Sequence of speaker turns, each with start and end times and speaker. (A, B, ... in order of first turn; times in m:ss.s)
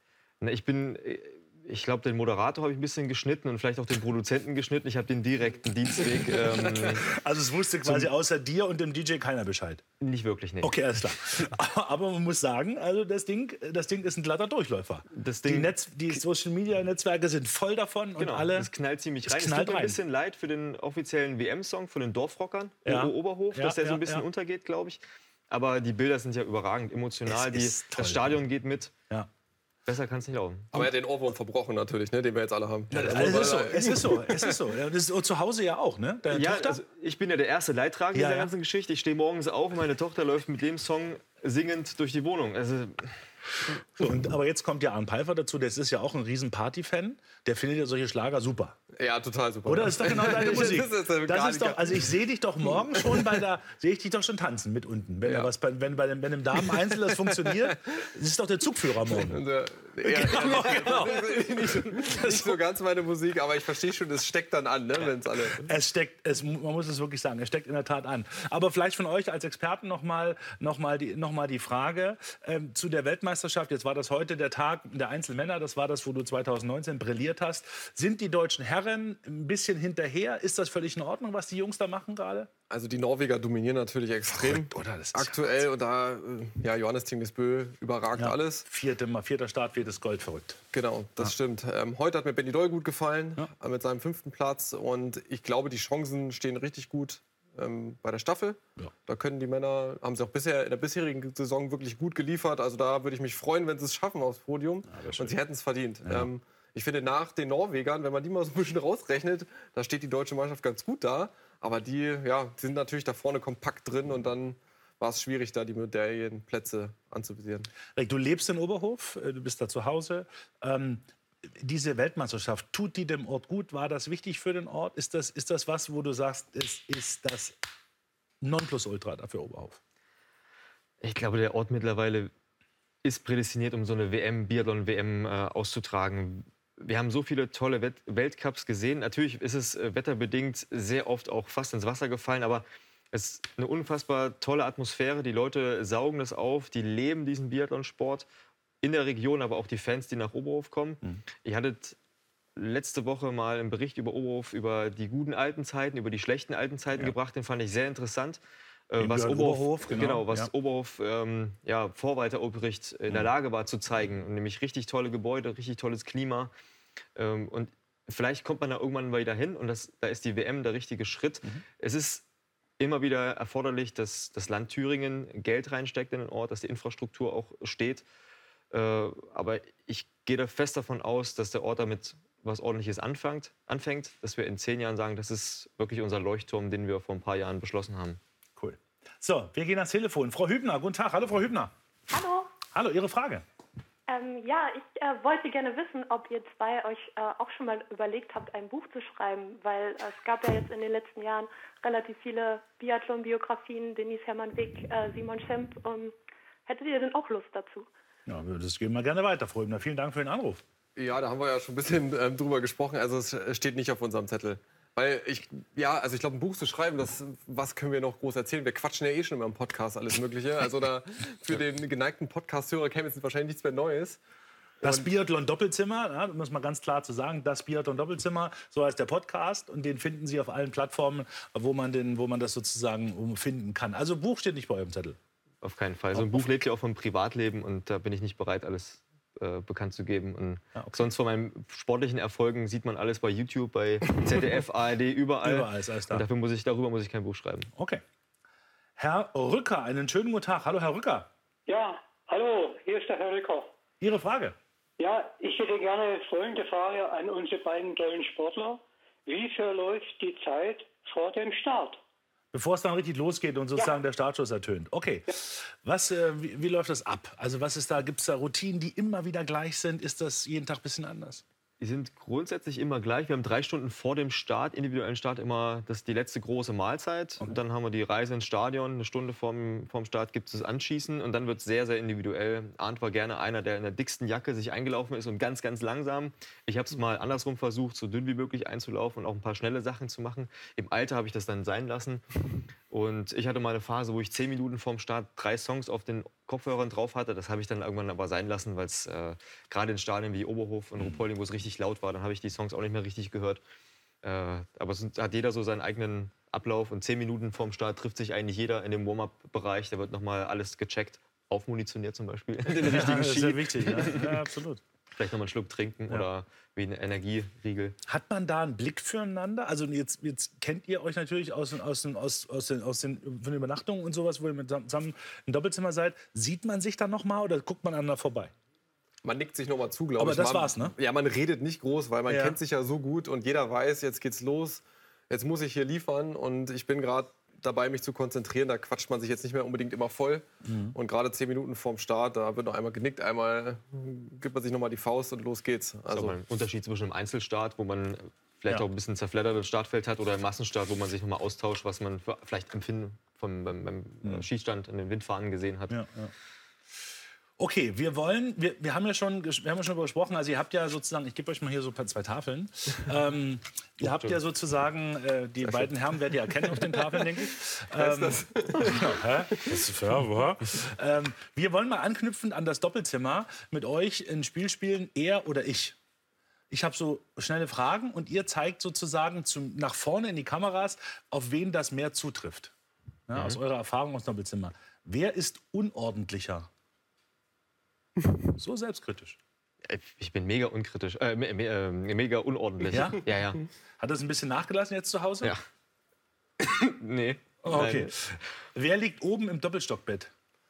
0:00.4-0:07.1 A
0:06.8-0:09.8 B
0:10.0-0:10.8 A
0:10.6-0:18.7 B
0:15.1-0:16.2 A
0:18.2-0:28.9 A
0:19.2-0:20.0 B
0:22.8-0:24.2 B
0:27.2-0:28.4 B
0:29.9-0:30.8 A
0:30.7-0:34.5 C
0:32.9-0:36.8 B
0:32.9-0:33.5 A
0:36.3-0:43.2 A
0:38.1-0:38.5 B
0:44.0-0:48.8 B
0:49.0-0:52.0 C
0:49.6-0:59.4 B
0:55.2-0:55.5 C
0:59.2-1:05.6 C
1:00.0-1:02.6 B
1:05.6-1:22.5 B
1:22.7-1:28.6 C
1:24.3-1:25.6 B
1:28.2-1:30.6 B
1:30.7-1:57.7 C
1:44.9-1:45.4 B
1:46.0-1:46.3 B
1:58.0-2:07.6 B
2:08.4-2:09.8 B
2:11.0-2:12.3 A
2:13.0-2:28.3 A
2:28.8-2:32.0 A
2:32.6-2:46.5 A
2:39.0-2:40.5 B
2:47.2-2:52.2 A
2:52.8-2:58.0 A
2:58.7-3:08.2 A
3:08.6-3:11.7 B
3:12.1-3:12.5 D
3:12.7-3:13.4 B
3:14.1-3:26.1 D
3:26.6-3:27.9 D
3:28.2-3:30.6 B
3:31.0-3:44.2 C
3:44.8-3:45.1 C
3:44.8-3:55.2 B
3:55.6-4:07.7 A
3:56.1-3:56.5 B
4:00.8-4:01.1 B
4:05.4-4:06.2 B
4:07.8-4:08.0 B
4:09.0-4:11.3 B
4:11.7-4:13.7 E
4:14.0-4:14.6 B
4:15.0-4:22.0 E
4:22.5-4:31.4 B
4:31.8-4:52.2 A
4:52.9-5:03.6 A
5:04.2-5:14.4 A
5:12.8-5:14.8 B
5:15.2-5:18.0 A
5:18.1-5:28.5 B
5:29.2-5:46.4 C
5:30.2-5:31.0 B
5:32.3-5:32.6 B
5:40.6-5:41.0 B
5:46.1-5:56.0 A
5:55.9-5:56.3 B
5:57.6-6:16.0 B
6:04.0-6:04.4 A
6:08.0-6:09.8 C
6:16.7-6:22.7 B
6:23.3-6:26.7 B
6:23.3-6:23.6 A
6:28.5-6:29.4 B
6:29.8-6:33.6 A
6:32.9-6:33.3 B
6:34.0-6:35.5 B
6:36.6-6:38.1 A
6:37.6-6:40.3 B